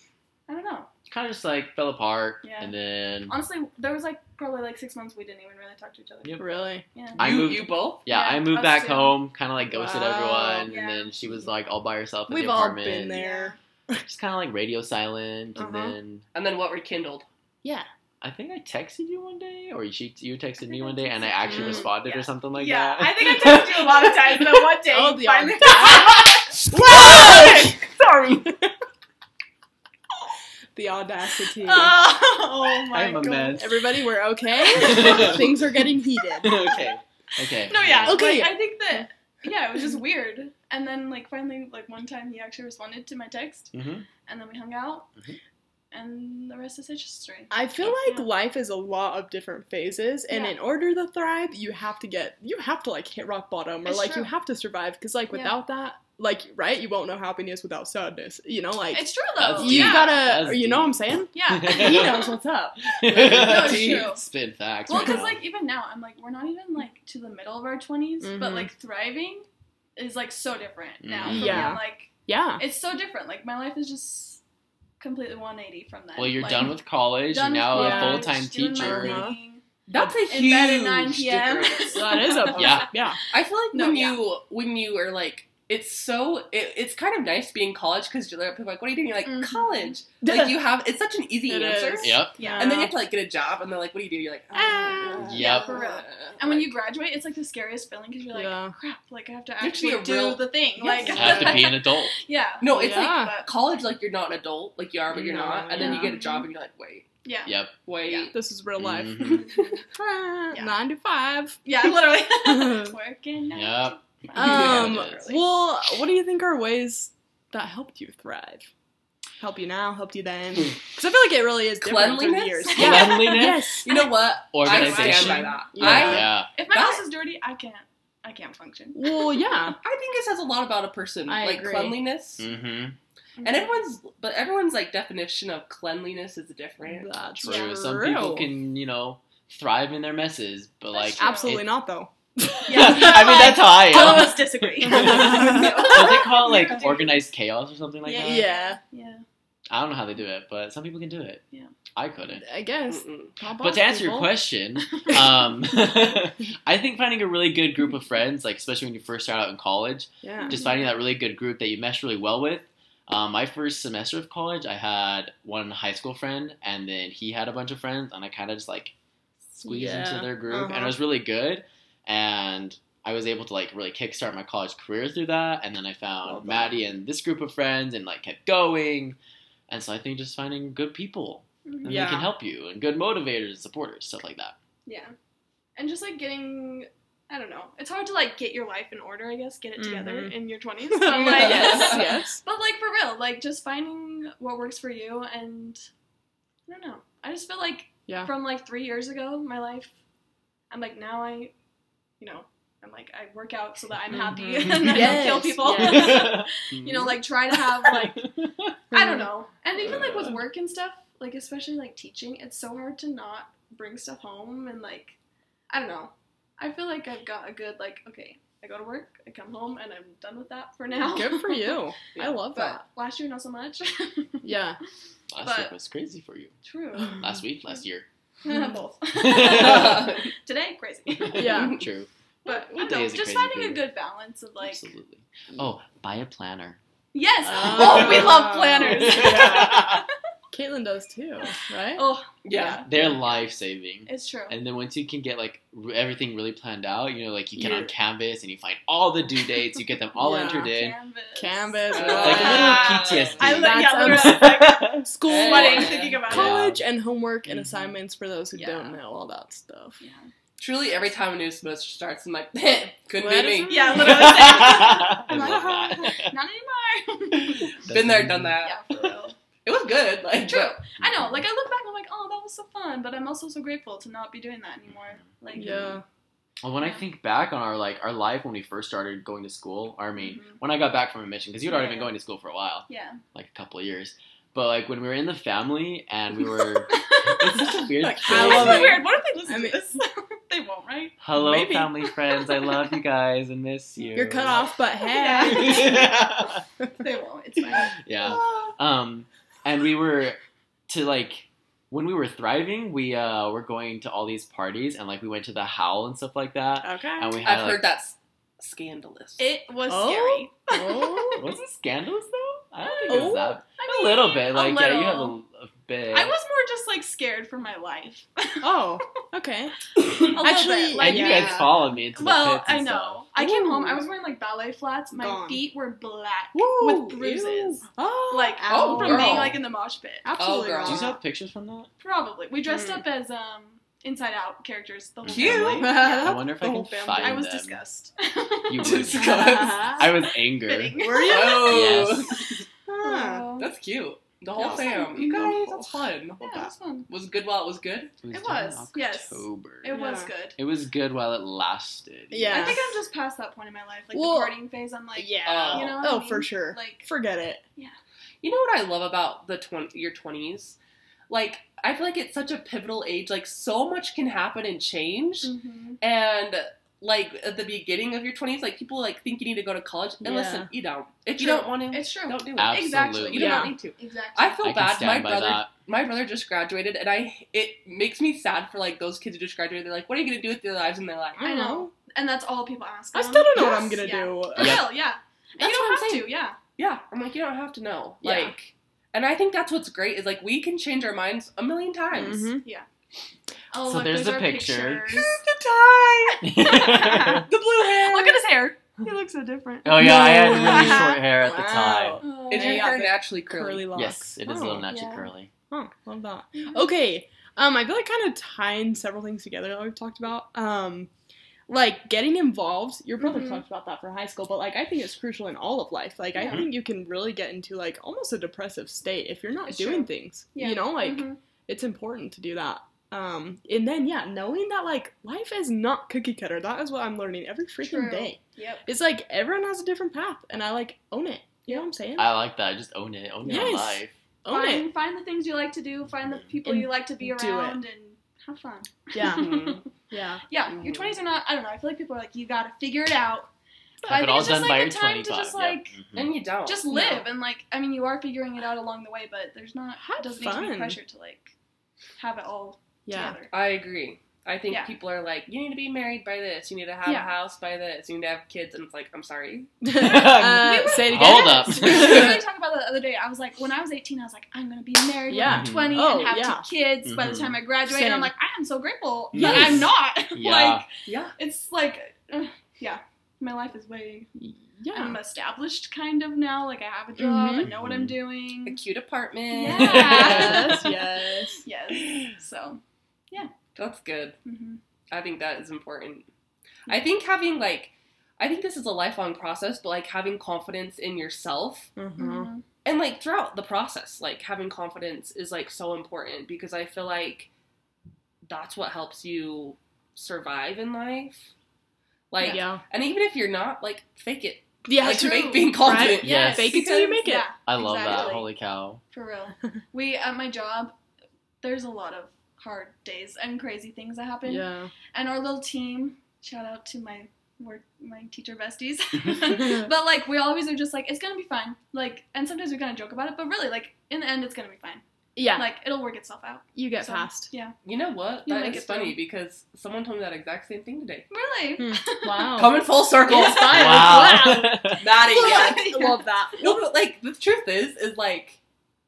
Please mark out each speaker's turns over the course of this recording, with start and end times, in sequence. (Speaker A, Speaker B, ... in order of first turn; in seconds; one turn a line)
Speaker A: 0.5-0.9
Speaker B: 1.1-3.3
Speaker A: 2.4-2.7
Speaker A: 3.2-6.4
Speaker C: 6.4-6.8
Speaker A: 6.9-7.2
Speaker B: 7.2-13.2
Speaker D: 7.2-8.0
Speaker A: 8.1-9.2
Speaker C: 9.6-10.7
Speaker A: 10.7-11.2
Speaker C: 12.3-14.0
Speaker A: 13.1-13.6
Speaker B: 14.0-16.2
Speaker C: 15.6-15.9
Speaker D: 16.3-17.2
Speaker B: 18.2-24.2
Speaker A: 20.6-27.6
Speaker C: 21.5-21.9
Speaker C: 24.8-27.9
Speaker D: 26.9-27.8
Speaker B: 26.9-27.6
Speaker C: 30.7-32.0
Speaker A: 31.6-33.6
Speaker B: 32.9-33.7
Speaker C: 33.5-36.5
Speaker B: 34.7-35.6
Speaker B: 36.4-38.2
Speaker A: 37.6-43.7
Speaker C: 37.8-39.0
Speaker B: 43.7-44.1
Speaker A: 44.2-45.1
Speaker A: 45.9-48.3
Speaker C: 47.5-63.0
Speaker A: 50.3-50.6
Speaker A: 53.9-54.3
Speaker A: 55.3-55.6
Speaker A: 58.9-60.2
Speaker B: 59.4-62.2
Speaker A: 61.3-62.4
Speaker B: 63.0-65.4
Speaker D: 63.1-64.1
Speaker A: 63.2-64.2
Speaker A: 64.9-74.4
Speaker C: 64.9-65.2
Speaker C: 68.2-68.7
Speaker B: 71.0-71.7
Speaker C: 71.2-72.6
Speaker A: 75.0-76.8
Speaker B: 76.2-79.3
Speaker A: 77.3-79.6
Speaker C: 77.7-79.3
Speaker D: 79.9-82.4
Speaker A: 80.3-83.0
Speaker C: 81.9-83.2
Speaker B: 82.5-82.9
Speaker D: 83.3-96.7
Speaker A: 83.7-84.2
Speaker A: 89.2-90.0
Speaker C: 90.2-90.6
Speaker C: 91.5-92.9
Speaker B: 92.0-92.4
Speaker A: 92.4-92.7
Speaker C: 94.5-95.4
Speaker B: 95.2-95.7
Speaker A: 95.3-103.5
Speaker C: 98.3-98.7
Speaker D: 99.6-101.7
Speaker C: 101.0-101.6
Speaker B: 101.0-102.1
Speaker D: 102.6-107.1
Speaker C: 102.7-103.3
Speaker C: 105.1-106.2
Speaker A: 105.8-106.5
Speaker A: 107.2-108.3
Speaker B: 107.5-107.7
Speaker D: 107.8-108.3
Speaker C: 108.3-112.9
Speaker B: 108.8-109.5
Speaker A: 109.3-109.8
Speaker A: 111.6-115.4
Speaker B: 113.5-115.2
Speaker C: 114.3-118.7
Speaker C: 119.4-123.9
Speaker D: 121.8-127.0
Speaker B: 122.7-123.6
Speaker A: 122.8-124.1
Speaker B: 124.5-126.5
Speaker A: 124.6-125.5
Speaker C: 125.0-126.3
Speaker A: 126.5-129.4
Speaker C: 128.9-129.8
Speaker D: 129.8-132.4
Speaker C: 131.3-132.0
Speaker B: 132.4-132.9
Speaker A: 133.4-133.7
Speaker D: 133.4-137.1
Speaker C: 136.8-138.5
Speaker B: 137.4-141.7
Speaker A: 140.9-141.6
Speaker C: 141.2-144.1
Speaker B: 142.6-148.5
Speaker A: 142.7-147.2
Speaker C: 144.8-145.9
Speaker A: 148.1-149.2
Speaker C: 148.1-148.8
Speaker B: 149.7-151.4
Speaker B: 151.9-152.4
Speaker C: 152.3-154.3
Speaker D: 152.9-153.3
Speaker B: 153.6-168.9
Speaker C: 160.2-160.6
Speaker A: 160.4-160.9
Speaker B: 169.6-179.2
Speaker C: 169.6-171.0
Speaker C: 176.3-176.7
Speaker B: 179.7-184.6
Speaker A: 181.7-181.9
Speaker C: 181.8-182.3
Speaker A: 184.8-185.1
Speaker A: 185.8-195.8
Speaker C: 189.8-190.4
Speaker C: 190.9-192.4
Speaker D: 191.1-192.2
Speaker A: 196.7-199.9
Speaker A: 200.7-201.5
Speaker A: 202.2-208.3
Speaker C: 204.1-206.4
Speaker B: 204.6-208.7
Speaker A: 208.9-215.2
Speaker C: 208.9-209.3
Speaker B: 209.8-210.3
Speaker A: 215.7-221.8
Speaker C: 221.0-222.8
Speaker D: 222.1-222.7
Speaker A: 222.6-224.5
Speaker C: 224.4-224.8
Speaker B: 225.3-226.5
Speaker A: 225.4-225.7
Speaker A: 226.6-227.2
Speaker B: 227.2-228.1
Speaker A: 228.4-231.7
Speaker B: 229.2-230.1
Speaker D: 229.4-230.3
Speaker C: 231.3-231.8
Speaker B: 231.3-233.8
Speaker D: 231.4-231.8
Speaker A: 232.4-234.9
Speaker B: 234.6-236.8
Speaker A: 237.1-240.0
Speaker C: 237.4-239.9
Speaker B: 237.7-240.0
Speaker C: 240.5-242.0
Speaker A: 241.9-242.9
Speaker D: 242.4-242.8
Speaker B: 242.8-250.9
Speaker A: 244.1-244.5
Speaker C: 247.6-247.9
Speaker C: 250.2-250.7
Speaker A: 250.6-256.6
Speaker C: 251.3-252.9
Speaker D: 251.9-253.4
Speaker B: 252.2-255.1
Speaker C: 253.4-260.0
Speaker D: 255.2-256.2
Speaker B: 256.2-256.8
Speaker B: 257.5-257.8
Speaker A: 258.5-259.0
Speaker A: 260.0-260.3
Speaker D: 260.6-263.9
Speaker C: 263.1-266.1
Speaker A: 263.7-267.7
Speaker B: 263.9-266.4
Speaker B: 267.5-268.6
Speaker D: 267.8-268.8
Speaker A: 268.6-269.4
Speaker D: 269.6-270.8
Speaker A: 270.4-276.0
Speaker B: 271.0-271.4
Speaker B: 274.9-275.2
Speaker C: 275.5-276.0
Speaker B: 276.6-289.0
Speaker A: 280.2-280.6
Speaker A: 281.6-282.1
Speaker A: 282.9-283.2
Speaker A: 286.9-291.2
Speaker D: 288.0-289.0
Speaker C: 288.2-289.8
Speaker B: 291.2-294.7
Speaker C: 291.3-291.9
Speaker A: 292.3-292.7
Speaker C: 294.1-296.1
Speaker A: 295.0-296.2
Speaker B: 295.4-296.6
Speaker A: 296.9-297.9
Speaker B: 298.0-307.9
Speaker C: 306.8-307.4
Speaker D: 307.4-309.4
Speaker A: 309.4-311.5
Speaker C: 309.9-311.5
Speaker B: 311.4-316.3
Speaker A: 312.8-315.4
Speaker C: 313.1-313.6
Speaker A: 316.1-318.8
Speaker C: 318.6-319.7
Speaker A: 320.1-330.3
Speaker C: 320.4-321.7
Speaker B: 321.0-323.2
Speaker C: 323.4-324.0
Speaker C: 325.1-325.6
Speaker C: 326.5-329.5
Speaker D: 328.7-329.6
Speaker C: 330.2-331.1
Speaker D: 330.4-331.1
Speaker B: 330.8-331.9
Speaker A: 332.0-336.3
Speaker C: 332.7-333.0
Speaker B: 335.2-337.8
Speaker D: 335.3-335.9
Speaker C: 335.7-337.4
Speaker A: 337.2-341.8
Speaker B: 338.7-342.4
Speaker D: 338.8-339.9
Speaker C: 339.4-340.1
Speaker C: 341.0-342.2
Speaker D: 341.2-342.6
Speaker C: 342.9-343.5
Speaker A: 343.0-343.7
Speaker D: 343.6-346.4
Speaker A: 344.6-345.6
Speaker C: 344.6-346.7
Speaker A: 346.4-347.1
Speaker D: 347.1-348.1
Speaker B: 348.2-350.0
Speaker A: 348.3-350.6
Speaker C: 349.9-350.3
Speaker B: 350.6-352.9
Speaker C: 352.3-353.0
Speaker A: 352.5-357.1
Speaker C: 354.1-354.6
Speaker C: 355.1-357.6
Speaker D: 355.4-356.1
Speaker D: 358.4-360.8
Speaker D: 361.3-381.5
Speaker A: 365.4-366.0
Speaker C: 370.2-370.7
Speaker A: 371.4-374.7
Speaker B: 372.6-373.6
Speaker C: 373.3-373.7
Speaker B: 374.6-375.7
Speaker C: 381.4-381.9
Speaker A: 381.4-386.6
Speaker C: 383.1-384.9
Speaker B: 384.6-384.9
Speaker C: 385.6-386.3
Speaker D: 386.8-392.5
Speaker A: 388.2-388.5
Speaker C: 392.1-392.6
Speaker A: 393.7-395.4
Speaker B: 393.8-395.1
Speaker D: 395.2-396.4
Speaker B: 396.4-397.4
Speaker A: 396.6-398.8
Speaker D: 397.5-398.4
Speaker C: 399.0-404.9
Speaker B: 399.8-402.2
Speaker A: 400.5-401.0
Speaker A: 402.2-402.9
Speaker D: 402.5-403.9
Speaker B: 403.9-405.5
Speaker A: 404.9-405.3
Speaker C: 405.7-411.1
Speaker C: 411.7-432.3
Speaker A: 413.2-413.6
Speaker A: 416.3-416.6
Speaker A: 419.6-421.4
Speaker A: 427.8-428.8
Speaker B: 432.2-434.1
Speaker C: 433.4-434.9
Speaker A: 434.5-439.8
Speaker C: 436.6-437.8
Speaker C: 439.1-439.6
Speaker D: 439.2-439.8
Speaker C: 440.1-440.4
Speaker A: 440.5-443.5
Speaker D: 440.7-441.1
Speaker B: 444.0-446.3
Speaker A: 444.0-446.0
Speaker D: 446.1-446.8
Speaker A: 446.6-451.5
Speaker C: 446.9-447.3
Speaker C: 450.0-451.0
Speaker A: 452.2-453.5
Speaker C: 453.1-453.4
Speaker D: 453.5-459.7
Speaker A: 457.0-457.3
Speaker C: 459.8-462.4
Speaker B: 459.9-462.4
Speaker A: 460.0-474.3
Speaker C: 465.3-466.7
Speaker B: 465.4-466.1
Speaker B: 467.0-467.6
Speaker C: 467.9-468.3
Speaker B: 469.3-470.8
Speaker C: 469.3-469.9
Speaker D: 471.1-471.3
Speaker C: 474.3-475.2
Speaker A: 474.9-478.8
Speaker C: 477.2-477.7
Speaker B: 477.6-478.2
Speaker D: 478.6-480.5
Speaker A: 479.5-480.9
Speaker B: 479.7-480.8
Speaker C: 479.8-481.6
Speaker A: 481.6-482.8
Speaker D: 483.7-484.4
Speaker A: 484.4-484.8
Speaker D: 485.1-486.3
Speaker D: 486.9-491.9
Speaker C: 491.9-492.5
Speaker A: 492.2-492.6
Speaker D: 492.8-497.5
Speaker D: 498.5-501.5
Speaker D: 502.3-507.2
Speaker C: 502.4-502.8
Speaker C: 504.9-507.5
Speaker A: 505.0-508.5
Speaker B: 506.2-506.9
Speaker B: 507.6-509.0
Speaker A: 509.1-510.9
Speaker A: 511.6-527.8
Speaker C: 514.5-514.9
Speaker C: 519.4-519.9
Speaker C: 525.4-525.7
Speaker C: 526.7-527.5
Speaker D: 527.8-531.2
Speaker A: 528.4-529.2
Speaker A: 531.3-532.8
Speaker C: 531.8-536.8
Speaker D: 532.5-534.3
Speaker B: 533.5-535.1
Speaker D: 535.0-538.6
Speaker A: 535.1-536.3